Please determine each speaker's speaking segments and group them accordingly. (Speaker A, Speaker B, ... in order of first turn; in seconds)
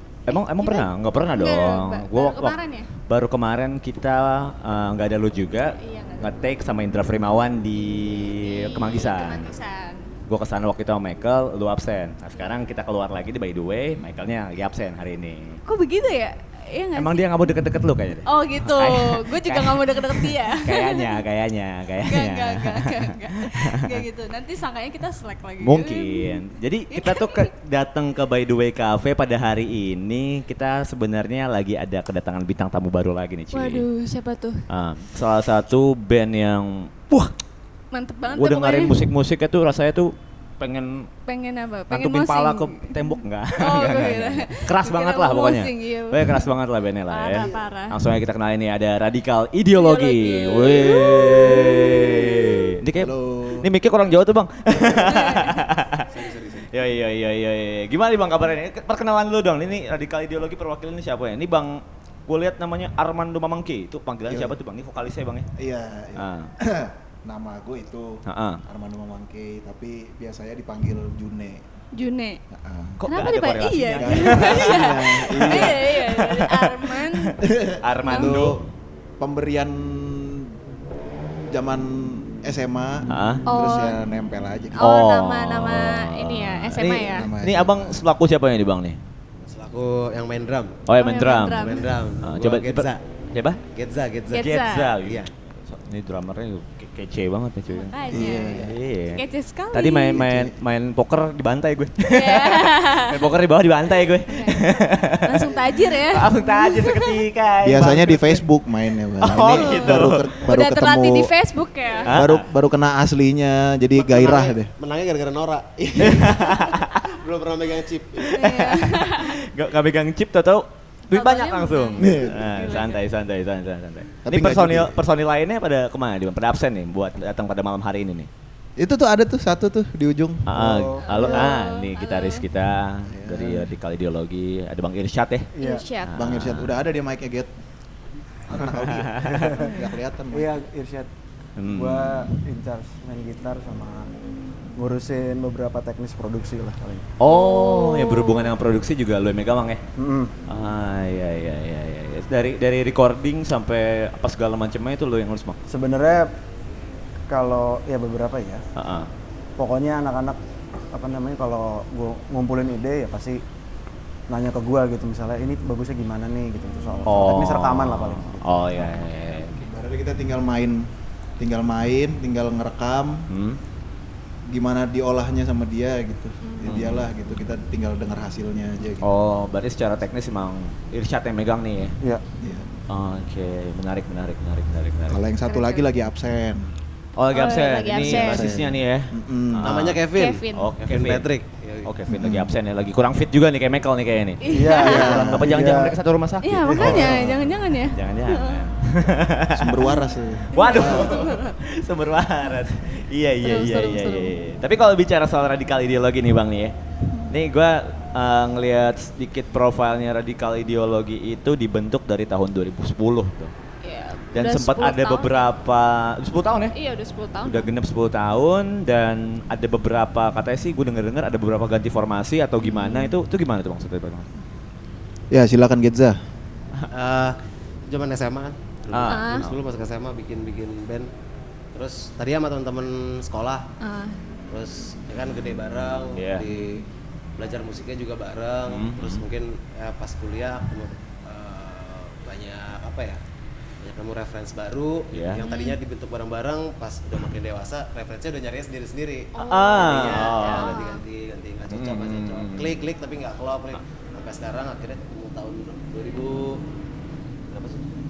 Speaker A: 0.3-9.5, 10.3-15.6, 16.9-24.0, 25.6-33.9, 34.7-37.3, 38.3-41.1, 41.9-65.5, 66.2-66.5, 68.3-68.6, 73.0-78.6, 83.1-83.5, 84.8-89.0, 90.9-93.6, 94.3-108.4, 109.2-110.4, 112.1-112.5, 116.0-117.0, 118.3-128.3, 130.5-135.5, 136.1-136.7, 138.6-139.6, 141.6-142.3, 147.2-149.8, 150.5-155.6, 158.8-159.1, 167.1-169.6, 173.3-173.6, 176.6-177.1, 179.0-182.0, 182.9-185.2, 187.2-191.3, 191.8-197.3, 197.9-199.9, 200.5-206.7, 207.3-213.5, 214.3-216.8, 217.4-224.3, 228.9-229.6, 236.1-236.5, 238.7-239.2, 245.1-245.4, 249.4-250.8, 251.7-252.8
Speaker B: 0.3-2.9, 5.6-6.4, 8.2-10.1, 12.4-12.6, 15.7-17.3, 18.2-21.2, 22.0-26.4, 26.9-27.5, 33.5-34.6, 37.9-39.0, 41.3-46.5, 47.1-48.0, 49.7-52.7, 54.9-55.6, 71.9-72.4, 73.1-77.4, 78.1-78.4, 83.5-84.0, 84.8-87.3, 91.0-91.9, 94.3-94.9, 97.7-100.2, 102.0-103.3, 104.3-107.2, 109.5-112.2, 118.3-119.3, 121.1-123.0, 131.0-132.4, 135.6-136.2, 147.2-148.5, 176.4-176.9, 185.4-185.9, 187.3-188.6, 190.1-190.7, 194.4-195.1, 196.4-198.7, 200.6-201.6, 203.4-204.4, 207.1-207.3, 213.8-215.5, 216.7-217.7, 222.6-223.2, 229.1-229.5, 233.8-234.2, 245.4-245.8, 249.3-251.0
Speaker C: 53.0-53.7, 54.7-55.0, 56.1-56.7, 64.3-64.5, 65.6-71.6, 72.5-73.0, 74.0-75.9, 77.4-78.6, 79.2-80.5, 81.5-84.8, 87.0-88.0, 98.1-98.7, 100.1-100.5, 107.6-111.3, 112.1-114.7, 122.0-122.4, 124.2-125.0, 128.8-130.4, 133.1-133.7, 136.2-137.5, 138.5-140.6, 169.7-170.9, 171.4-173.2, 174.5-179.1, 182.4-182.7, 185.1-186.7, 188.0-189.7, 192.1-192.5, 194.8-195.7, 196.8-197.6, 199.5-201.2, 225.3-226.2
Speaker D: 89.4-90.8, 91.6-93.0, 93.7-95.3, 114.0-118.3, 189.6-191.9, 226.9-231.1, 231.7-233.7, 234.5-236.8, 237.4-243.2, 243.8-256.6, 257.5-257.9
Speaker E: 130.5-131.3, 135.6-135.8, 139.3-139.6, 140.3-141.1, 141.7-144.1, 144.8-147.1, 150.0-150.3, 155.7-156.3, 157.3-158.6, 159.6-160.4, 160.9-163.4, 164.3-168.9, 194.5-195.9, 196.7-197.1